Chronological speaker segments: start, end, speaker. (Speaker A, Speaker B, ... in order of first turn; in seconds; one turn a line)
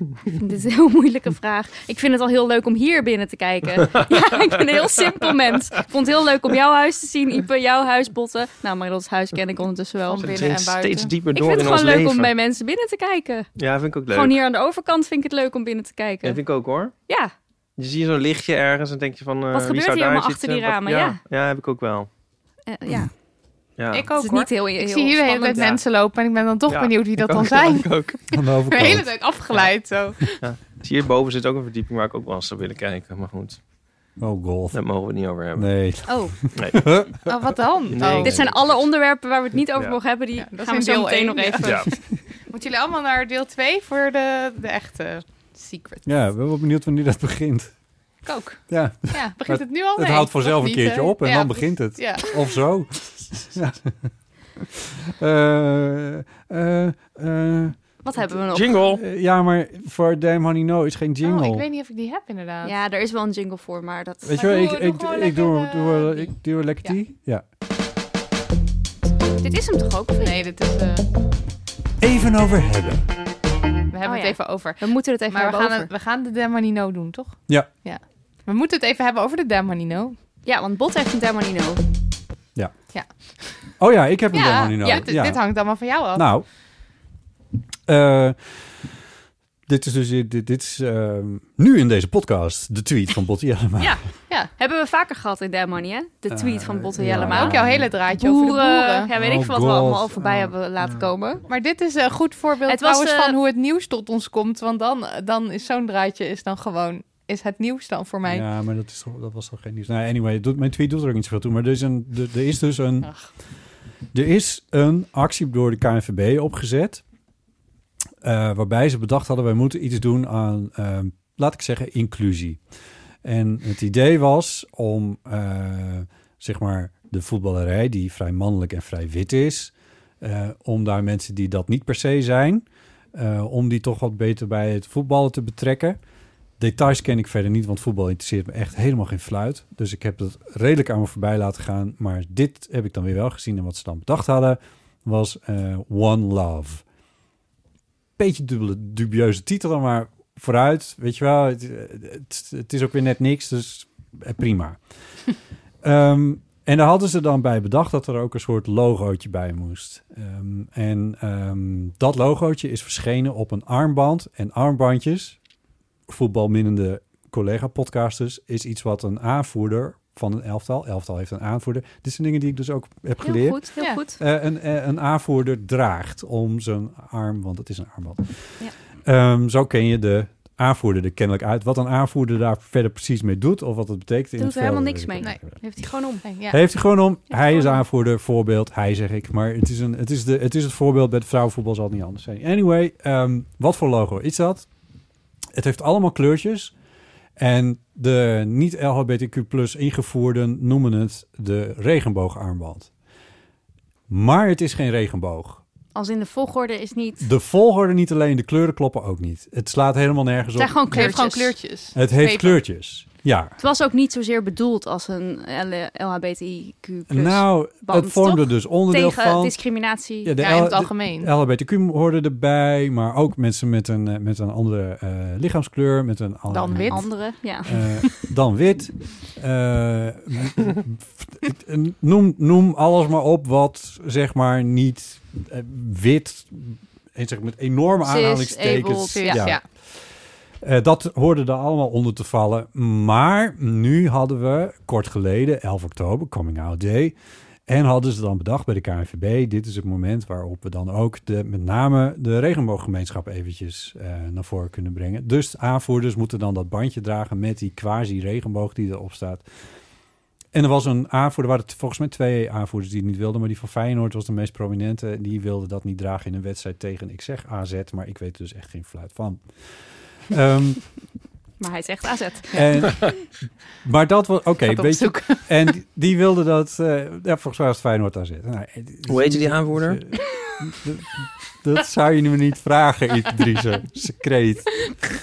Speaker A: 0.3-10.3
Speaker B: 10.1-11.1
Speaker C: 10.2-12.3
Speaker A: 11.3-13.5
Speaker C: 13.6-14.4
Speaker A: 14.1-16.4
Speaker C: 16.2-16.9
Speaker A: 17.1-17.3
Speaker C: 17.8-22.1
Speaker A: 19.5-21.2
Speaker A: 22.7-23.1
Speaker C: 23.8-24.1
Speaker B: 23.9-27.9
Speaker A: 24.1-25.8
Speaker C: 26.7-28.2
Speaker D: 28.3-29.1
Speaker B: 28.7-30.4
Speaker C: 30.4-33.6
Speaker D: 34.2-34.8
Speaker C: 34.7-35.7
Speaker D: 35.6-37.3
Speaker A: 36.1-36.4
Speaker C: 36.5-36.9
Speaker B: 37.2-38.4
Speaker C: 37.9-38.8
Speaker A: 38.2-42.0
Speaker B: 40.4-41.9
Speaker C: 41.6-41.9
Speaker B: 42.5-46.0
Speaker D: 46.0-47.7
Speaker B: 48.2-52.4
Speaker D: 48.7-61.7
Speaker A: 58.0-58.9
Speaker C: 58.5-59.0
Speaker B: 61.2-62.8
Speaker A: 62.6-64.8
Speaker D: 64.2-67.4
Speaker B: 64.3-66.2
Speaker A: 69.4-70.4
Speaker B: 70.2-71.1
Speaker D: 72.0-73.0
Speaker B: 73.9-80.2
Speaker A: 74.0-75.9
Speaker A: 80.5-81.8
Speaker D: 83.8-85.4
Speaker B: 84.3-86.3
Speaker A: 84.4-85.1
Speaker D: 86.2-86.5
Speaker D: 87.9-88.9
Speaker D: 89.7-94.0
Speaker A: 93.8-94.0
Speaker A: 94.6-101.5
Speaker D: 96.3-97.9
Speaker B: 97.1-99.1
Speaker D: 99.1-101.1
Speaker B: 101.5-108.5
Speaker A: 102.7-103.4
Speaker D: 108.2-113.1
Speaker B: 113.0-113.3
Speaker D: 114.1-117.0
Speaker D: 118.2-122.6
Speaker D: 123.2-136.0
Speaker D: 136.6-146.8
Speaker D: 148.2-154.8
Speaker D: 155.8-165.4
Speaker D: 166.1-185.5
Speaker A: 173.2-174.2
Speaker A: 184.4-186.3
Speaker B: 186.2-186.6
Speaker D: 186.5-194.7
Speaker D: 195.5-196.7
Speaker D: 197.4-202.9
Speaker D: 204.1-205.6
Speaker A: 205.9-207.3
Speaker D: 207.2-211.2
Speaker A: 210.6-211.6
Speaker B: 210.9-212.6
Speaker D: 211.9-213.6
Speaker A: 213.6-220.4
Speaker D: 217.1-219.6
Speaker D: 220.2-227.1
Speaker B: 220.4-221.3
Speaker B: 226.5-227.4
Speaker A: 226.7-228.0
Speaker D: 227.6-240.1
Speaker A: 238.0-239.6
Speaker B: 239.1-239.6
Speaker D: 240.6-247.2
Speaker D: 247.7-259.4
Speaker D: 260.5-269.4
Speaker D: 270.3-270.8
Speaker A: 271.6-273.1
Speaker D: 272.5-273.2
Speaker D: 273.8-285.0
Speaker B: 274.7-275.6
Speaker C: 279.1-280.0